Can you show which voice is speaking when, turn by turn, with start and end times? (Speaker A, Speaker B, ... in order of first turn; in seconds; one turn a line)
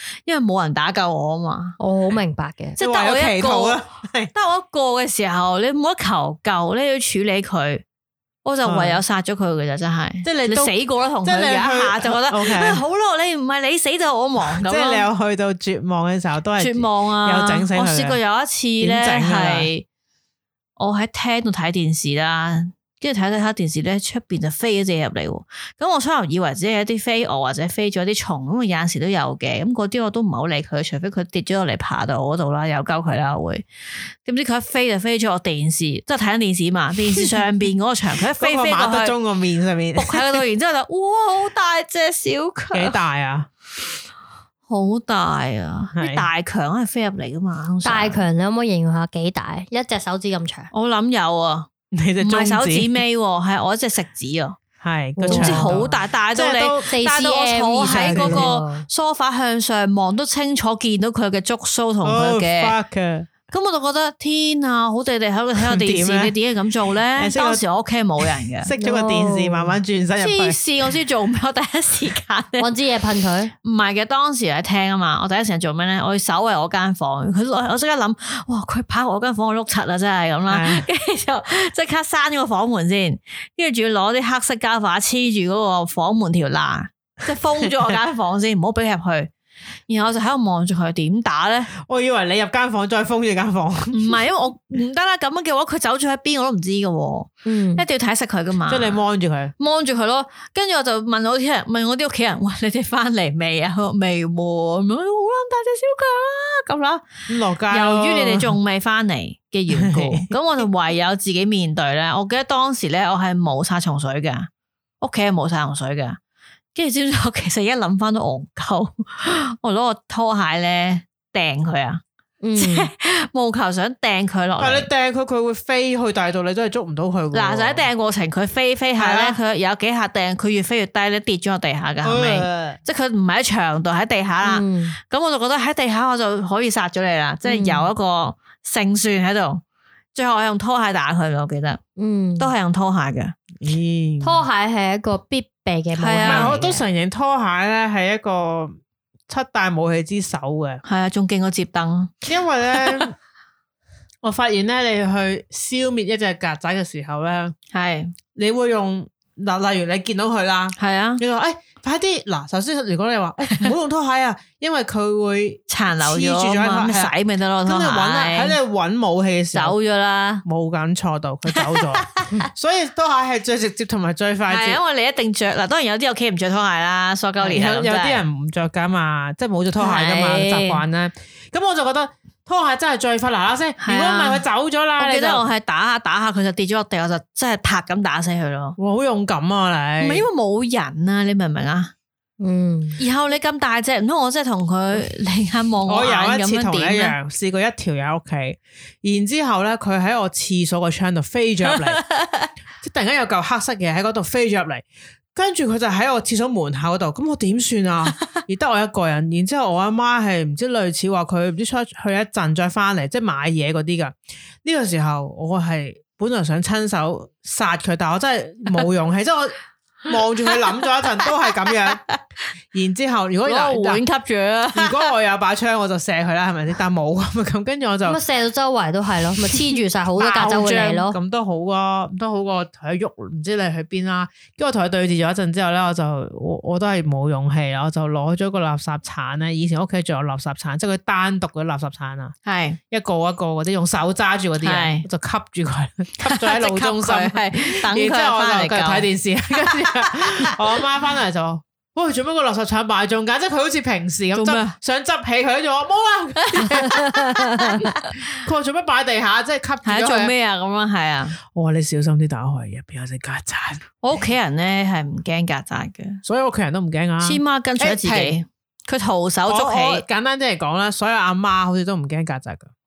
Speaker A: 0.2-1.8
Speaker B: 1.8-2.8
Speaker A: 2.8-3.8
Speaker C: 2.8-4.3
Speaker A: 4.3-7.8
Speaker A: 8.4-15.1
Speaker C: 8.6-9.0
Speaker C: 10.2-12.8
Speaker C: 14.4-18.2
Speaker A: 16.6-19.8
Speaker C: 18.8-19.7
Speaker A: 20.8-33.6
Speaker A: 34.2-39.1
Speaker C: 38.3-40.4
Speaker A: 40.0-43.0
Speaker C: 42.7-43.5
Speaker A: 44.7-48.2
Speaker C: 45.9-46.2
Speaker B: 47.8-50.7
Speaker A: 50.7-51.7
Speaker C: 51.9-52.9
Speaker A: 52.2-54.6
Speaker C: 54.8-56.9
Speaker B: 55.2-55.8
Speaker A: 55.2-62.7
Speaker B: 56.9-58.8
Speaker C: 57.8-58.5
Speaker C: 62.0-63.3
Speaker A: 63.5-68.7
Speaker C: 65.6-66.3
Speaker C: 67.1-67.6
Speaker C: 68.2-70.6
Speaker B: 68.8-69.7
Speaker A: 70.2-72.7
Speaker B: 72.6-73.5
Speaker A: 73.6-89.3
Speaker C: 80.5-80.8
Speaker C: 87.6-87.9
Speaker A: 89.9-91.7
Speaker C: 91.8-94.2
Speaker A: 93.9-99.0
Speaker B: 97.4-97.8
Speaker C: 98.7-99.5
Speaker A: 99.6-114.5
Speaker C: 107.3-108.6
Speaker C: 109.7-110.3
Speaker A: 115.0-116.2
Speaker A: 116.7-122.0
Speaker B: 122.4-122.9
Speaker A: 122.6-124.9
Speaker C: 124.6-127.9
Speaker A: 127.3-139.6
Speaker C: 128.9-129.4
Speaker C: 132.0-132.8
Speaker B: 134.4-135.0
Speaker B: 137.4-137.9
Speaker A: 140.1-141.8
Speaker B: 142.0-142.5
Speaker A: 142.4-143.3
Speaker C: 143.6-144.4
Speaker B: 144.2-146.8
Speaker A: 146.0-146.6
Speaker C: 146.2-150.8
Speaker A: 150.8-152.1
Speaker C: 152.2-153.1
Speaker A: 152.7-153.1
Speaker C: 154.2-157.5
Speaker A: 157.7-158.1
Speaker C: 158.3-167.1
Speaker A: 160.8-161.2
Speaker A: 165.7-168.6
Speaker C: 167.6-169.8
Speaker A: 169.5-170.4
Speaker C: 170.4-174.8
Speaker A: 171.5-172.5
Speaker A: 174.5-178.2
Speaker C: 177.4-185.4
Speaker A: 179.8-180.8
Speaker A: 183.8-184.4
Speaker A: 185.0-188.8
Speaker C: 188.8-190.2
Speaker A: 190.0-191.9
Speaker B: 192.4-193.0
Speaker A: 193.0-197.1
Speaker C: 195.8-202.0
Speaker A: 201.7-202.5
Speaker C: 202.8-222.0
Speaker A: 221.9-222.1
Speaker C: 222.7-224.0
Speaker A: 223.4-225.1
Speaker C: 224.7-228.2
Speaker B: 228.0-231.2
Speaker C: 230.2-242.3
Speaker A: 242.4-242.8
Speaker C: 242.9-260.3
Speaker A: 244.6-245.1
Speaker A: 246.2-250.6
Speaker A: 254.3-254.8
Speaker A: 256.4-258.3
Speaker A: 259.8-261.4
Speaker C: 261.5-263.9
Speaker A: 264.0-266.2
Speaker C: 266.2-268.4
Speaker A: 267.2-270.0
Speaker C: 269.5-272.7